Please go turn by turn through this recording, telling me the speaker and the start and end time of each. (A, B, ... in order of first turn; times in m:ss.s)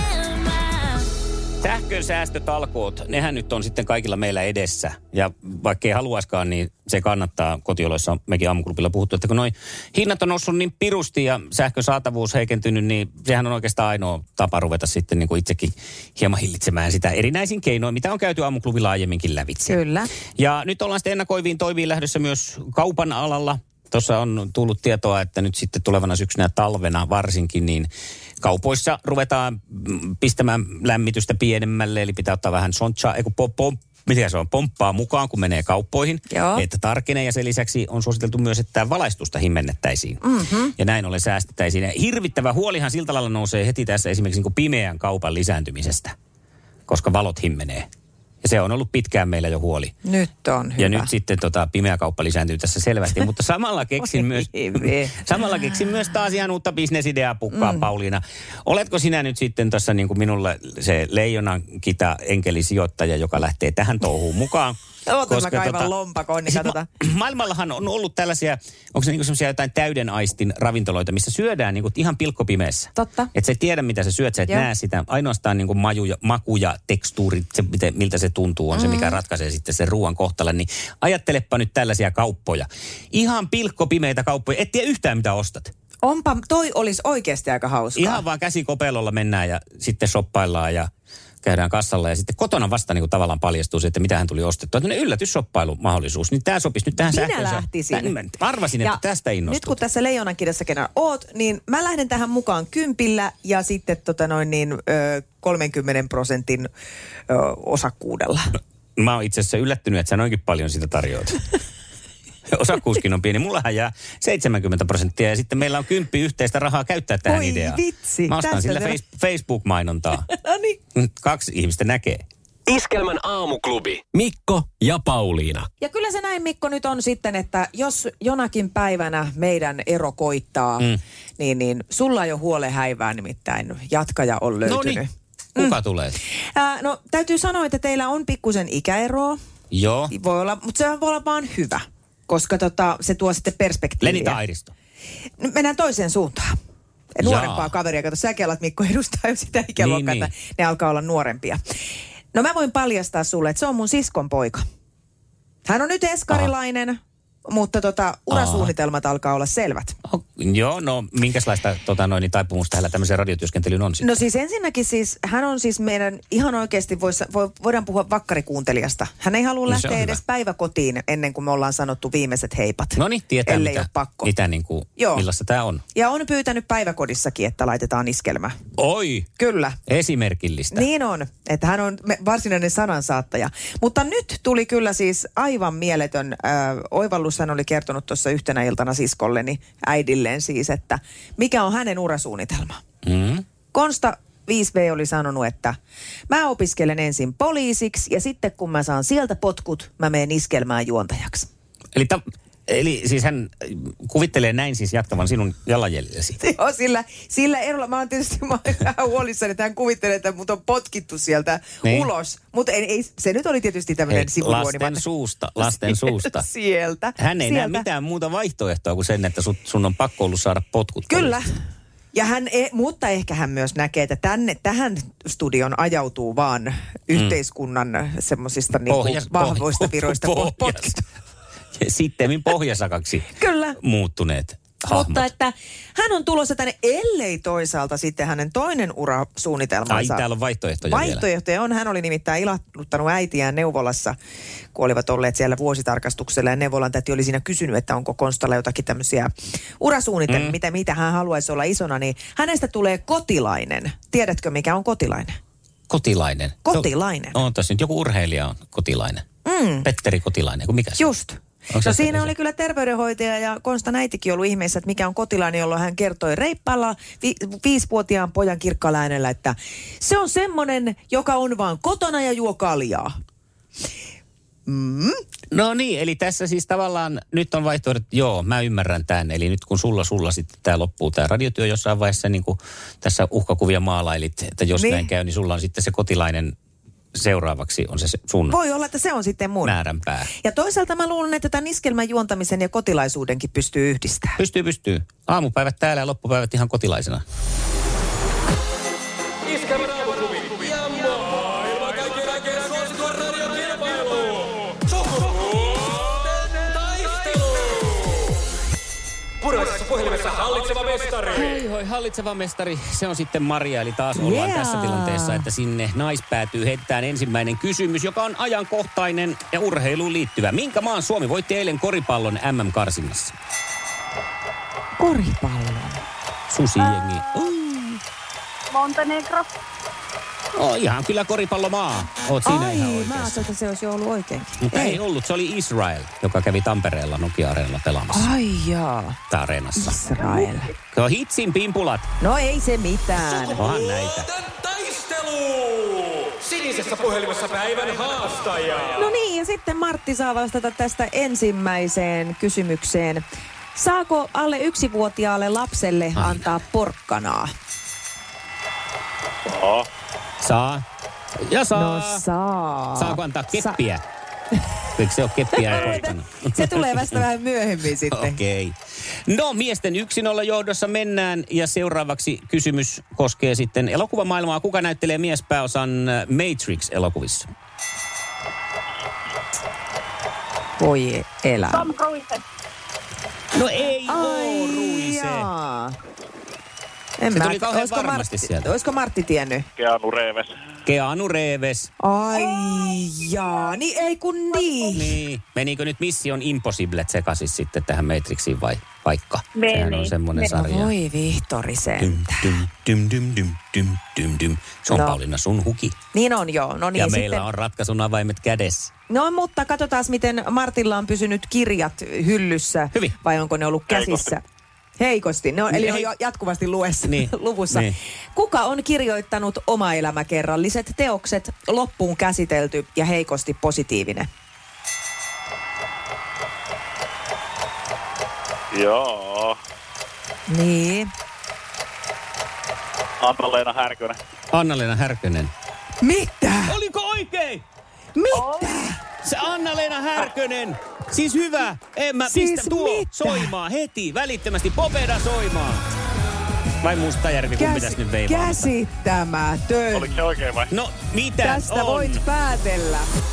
0:01.6-0:19.8 A
0:19.7-0:20.1 B
0:20.4-0:27.9 A
0:28.4-0:40.2 A
0:36.3-0:36.7 B
0:40.2-0:40.7 B
0:40.8-0:46.1 A
0:46.9-0:47.9 A
0:48.4-0:49.9 A
0:50.0-0:51.1 B
0:50.8-1:04.8 A
0:54.0-0:55.2 B
0:57.5-0:57.9 B
1:05.0-1:06.8 B
1:05.3-1:05.9 A
1:06.5-1:25.7 A
1:13.0-1:13.3 B
1:18.7-1:19.2 B
1:26.0-1:28.2 B
1:28.0-1:30.9 A
1:31.4-1:39.8 A
1:37.1-1:38.1 B
1:38.8-1:46.7 B
1:47.3-1:48.6 B
1:49.0-1:51.5 A
1:52.5-2:00.3 A
1:57.2-1:59.0 B
2:00.2-2:00.8 B
2:01.0-2:02.2 A
2:02.7-2:05.7 C
2:05.8-2:19.4 B
2:14.6-2:15.0 A
2:15.6-2:16.2 A
2:19.7-2:20.1 A
2:20.1-2:24.4 B
2:24.0-2:24.7 A
2:25.4-2:26.5 B
2:27.1-2:31.6 B
2:27.2-2:27.7 A
2:29.8-2:30.3 A
2:32.3-2:34.6 B
2:35.7-2:40.0 B
2:38.3-2:38.7 A
2:40.0-2:44.2 A
2:44.0-2:54.3 B
2:49.7-2:50.2 A
2:53.0-2:55.8 A
2:55.0-2:55.3 B
2:55.9-2:58.6 B
2:58.8-2:59.3 A
2:59.4-2:59.8 B
2:59.9-3:00.9 A
3:00.7-3:12.8 B
3:13.0-3:13.4 A
3:13.7-3:15.8 B
3:16.3-3:21.5 B
3:21.9-3:26.4 A
3:26.4-3:35.0 B
3:31.8-3:32.1 A
3:34.1-3:36.4 A
3:35.6-3:37.9 B
3:37.2-3:41.4 A
3:41.1-3:41.6 B
3:42.1-3:51.0 B
3:48.9-3:50.9 A
3:51.8-3:53.3 A
3:53.3-3:53.8 B
3:53.8-3:55.3 A
3:54.9-4:00.2 B
3:59.9-4:01.2 A
4:00.8-4:04.2 B
4:04.7-4:15.4 B
4:10.3-4:10.6 A
4:15.9-4:19.2 A
4:16.6-4:17.4 B
4:19.4-4:19.9 B
4:19.8-4:21.0 A
4:21.0-4:33.1 B
4:21.7-4:22.3 A
4:34.6-4:35.2 B
4:35.5-4:46.5 A
4:44.8-4:45.1 B
4:47.1-4:48.6 A
4:48.5-4:49.8 B
4:49.6-4:50.3 A
4:50.4-4:54.4 B
4:54.4-4:57.2 A
4:59.5-5:08.0 C
5:09.4-5:11.4 C
5:11.3-5:23.3 A
5:14.2-5:15.5 B
5:25.0-5:26.0 B
5:26.5-5:28.0 A
5:28.7-5:29.5 D
5:30.5-5:33.5 A
5:32.4-5:35.0 B
5:34.6-5:38.3 A
5:38.1-5:39.2 B
5:39.3-5:40.0 A
5:39.8-5:40.7 B
5:40.9-5:42.1 A
5:42.2-5:43.6 B
5:43.6-5:44.3 A
5:44.4-5:48.8 C
5:48.8-5:57.5 B
5:56.2-5:56.4 A
5:59.5-5:59.9 E
6:00.4-6:00.8 A
6:01.4-6:02.2 A
6:01.7-6:03.8 B
6:03.0-6:04.0 A
6:05.0-6:06.6 A
6:05.6-6:08.4 B
6:08.1-6:08.8 A
6:09.3-6:17.5 A
6:20.8-6:21.9 B
6:21.7-6:22.4 D
6:23.5-6:25.5 A
6:24.1-6:26.0 B
6:27.2-6:29.7 B
6:27.3-6:28.7 A
6:29.8-6:30.5 E
6:30.8-6:31.9 A
6:32.0-6:35.2 B
6:34.8-6:40.9 A
6:39.6-6:40.1 D
6:40.5-6:42.6 B
6:42.0-6:46.0 A
6:44.9-6:45.2 B
6:46.1-6:47.4 B
6:46.9-6:48.9 A
6:49.1-6:54.4 B
6:53.9-6:54.3 E
6:55.0-7:04.3 B
6:55.7-6:56.1 A
6:57.0-6:58.0 A
7:08.7-7:09.6 E
7:10.5-7:11.1 B
7:13.2-7:14.2 E
7:14.5-7:15.5 A
7:16.0-7:16.8 B
7:16.7-7:17.6 A
7:18.1-7:19.0 B
7:18.3-7:18.7 D
7:19.2-7:25.9 A
7:22.2-7:23.5 B
7:26.8-7:28.7 A
7:27.6-7:30.2 B
7:29.9-7:30.7 E
7:30.7-7:32.2 A
7:31.4-7:33.1 B